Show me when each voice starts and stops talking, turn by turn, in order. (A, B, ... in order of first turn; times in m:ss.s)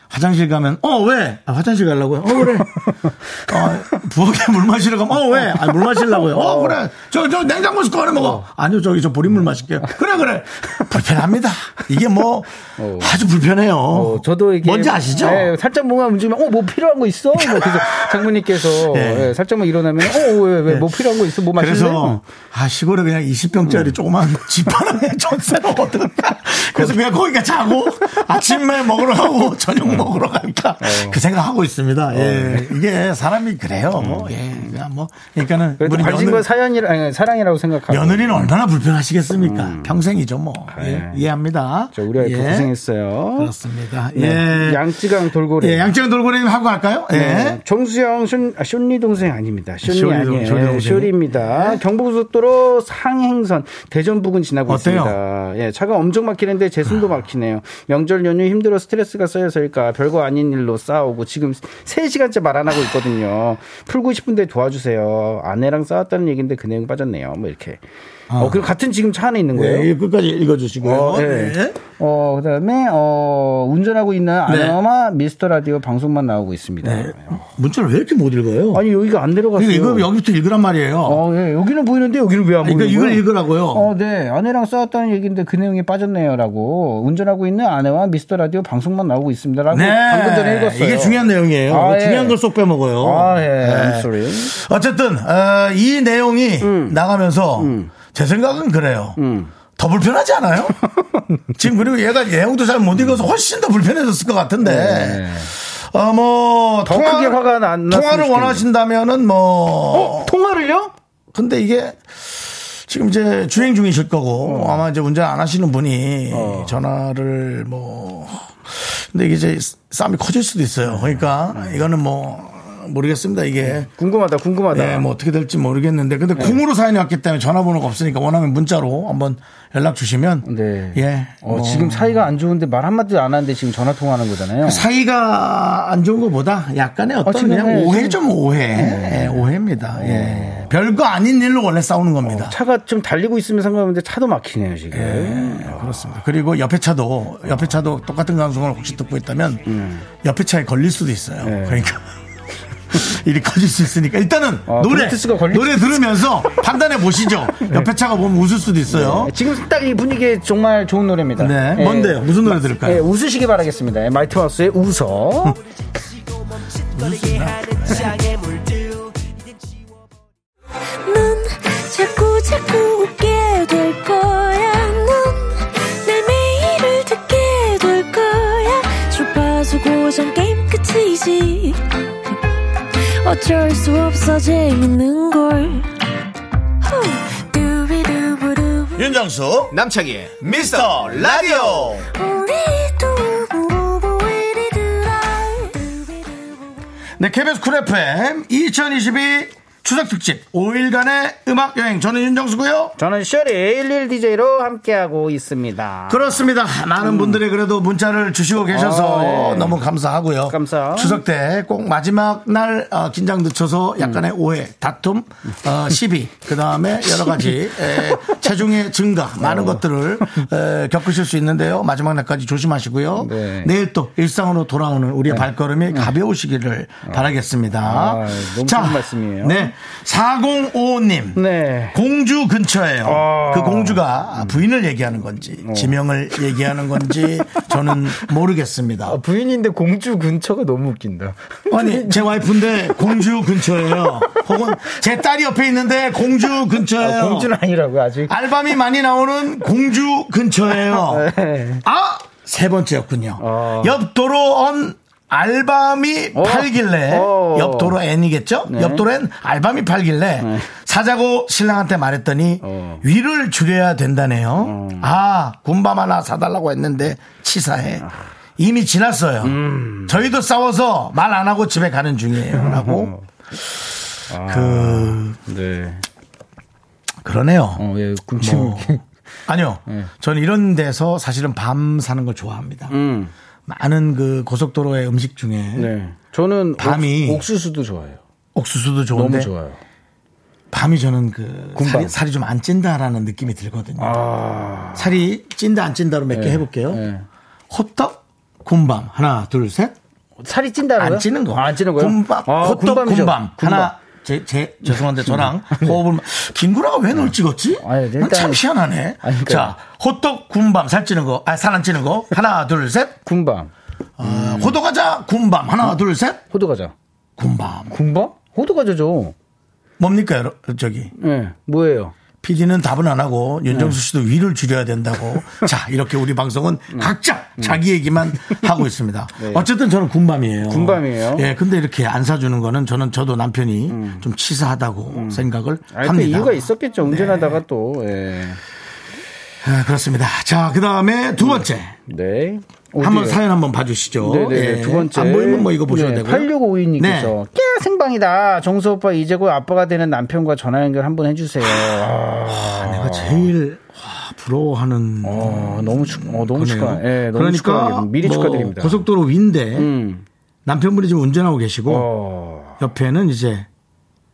0:00.1-0:02.8 A
0:02.9-0:03.5 B
0:03.5-0:15.5 A
0:05.4-0:06.8 B
0:08.2-0:08.4 B
0:12.8-0:13.2 B
0:13.9-0:22.2 B
0:17.4-0:19.4 A
0:20.0-0:36.5 A
0:23.6-0:24.0 B
0:30.8-0:31.2 B
0:32.1-0:32.8 B
0:34.0-0:34.3 B
0:35.8-0:38.5 B
0:37.9-0:42.7 A
0:39.4-0:40.0 B
0:40.7-0:41.2 B
0:41.9-0:43.5 B
0:43.4-0:44.9 A
0:44.1-0:45.9 B
0:45.6-0:47.6 A
0:47.1-1:07.8 B
0:49.8-0:51.8 A
0:54.7-0:55.2 A
1:08.3-1:08.7 A
1:08.4-1:09.9 B
1:09.5-1:11.8 A
1:10.8-1:17.4 B
1:14.5-1:14.8 A
1:16.8-1:18.8 A
1:18.7-1:20.1 B
1:19.6-1:21.2 A
1:21.0-1:32.4 B
1:22.6-1:23.9 A
1:29.7-1:39.2 A
1:33.0-1:34.5 B
1:36.6-1:37.0 B
1:37.6-1:37.9 B
1:39.2-1:39.5 B
1:39.8-1:40.8 A
1:41.0-1:41.2 B
1:41.6-1:50.3 A
1:44.6-1:45.5 B
1:46.9-1:48.7 B
1:49.9-1:50.9 B
1:51.3-2:03.9 A
1:54.4-1:54.8 B
1:56.3-1:56.8 B
2:00.9-2:01.8 B
2:03.6-2:05.1 B
2:04.7-2:12.3 A
2:10.4-2:14.8 B
2:14.6-2:22.6 A
2:17.2-2:18.2 B
2:18.7-2:20.7 B
2:22.2-2:26.1 B
2:24.9-2:29.7 A
2:29.7-2:30.1 B
2:30.2-2:32.0 A
2:31.4-2:31.9 B
2:32.9-2:39.3 A
2:34.7-2:36.0 B
2:38.9-2:45.6 B
2:41.4-2:43.0 A
2:46.9-2:48.2 A
2:51.1-3:01.8 C
3:03.2-3:05.9 C
3:06.8-3:09.2 C
3:09.0-3:09.8 A
3:09.7-3:12.0 D
3:10.5-3:12.0 A
3:12.2-3:16.6 C
3:17.2-3:23.0 A
3:23.0-3:26.5 B
3:26.1-3:51.4 A
3:27.0-3:27.4 B
3:28.7-3:29.8 B
3:30.5-3:31.2 B
3:37.1-3:38.5 B
3:39.4-3:40.5 B
3:43.2-3:43.7 B
3:45.3-3:46.1 B
3:47.8-3:49.7 B
3:51.4-3:52.0 B
3:51.9-3:59.2 A
3:53.0-3:54.6 B
3:55.6-3:55.9 B
3:59.0-4:02.5 B
4:01.7-4:07.5 A
4:04.0-4:04.9 B
4:07.0-4:08.4 B
4:08.3-4:11.3 A
4:10.8-4:11.8 B
4:11.8-4:28.1 A
4:13.4-4:14.0 B
4:16.4-4:18.0 B
4:18.7-4:19.0 B
4:20.4-4:20.7 B
4:22.6-4:23.0 B
4:24.6-4:25.1 B
4:28.6-4:33.1 A
4:29.4-4:30.3 B
4:32.5-4:33.2 B
4:34.3-4:36.0 B
4:34.5-4:35.4 A
4:37.2-4:37.8 A
4:37.8-4:39.0 B
4:38.4-4:39.0 A
4:39.5-4:43.0 A
4:42.9-4:43.3 B
4:43.7-4:45.9 A
4:45.8-4:48.2 B
4:46.8-4:47.5 A
4:48.6-4:49.5 A
4:49.1-4:49.8 B
4:50.7-4:54.2 A
4:51.8-4:52.1 B
4:54.0-4:55.2 B
4:55.0-4:57.0 A
4:56.3-4:57.3 B
4:57.7-5:00.0 A
5:00.4-5:03.9 B
5:01.0-5:13.2 A
5:05.2-5:06.0 B
5:07.8-5:08.6 B
5:09.2-5:09.7 B
5:13.2-5:14.8 B
5:14.2-5:16.4 A
5:16.5-5:16.9 B
5:17.4-5:18.0 A
5:17.9-5:19.4 B
5:20.0-5:21.1 A
5:21.2-5:22.2 B
5:22.4-5:37.6 A
5:23.7-5:24.0 B
5:26.9-5:27.8 B
5:28.4-5:28.7 B
5:29.4-5:29.7 B
5:30.6-5:31.5 B
5:33.9-5:34.2 B
5:35.1-5:38.6 B
5:39.6-5:42.0 A
5:41.4-5:43.4 B
5:43.0-5:47.4 A
5:44.2-5:53.5 B
5:52.5-5:59.9 A
5:55.2-5:59.1 B
5:59.8-6:00.2 B
6:00.6-6:02.1 A
6:01.9-6:02.8 B
6:02.8-6:03.7 A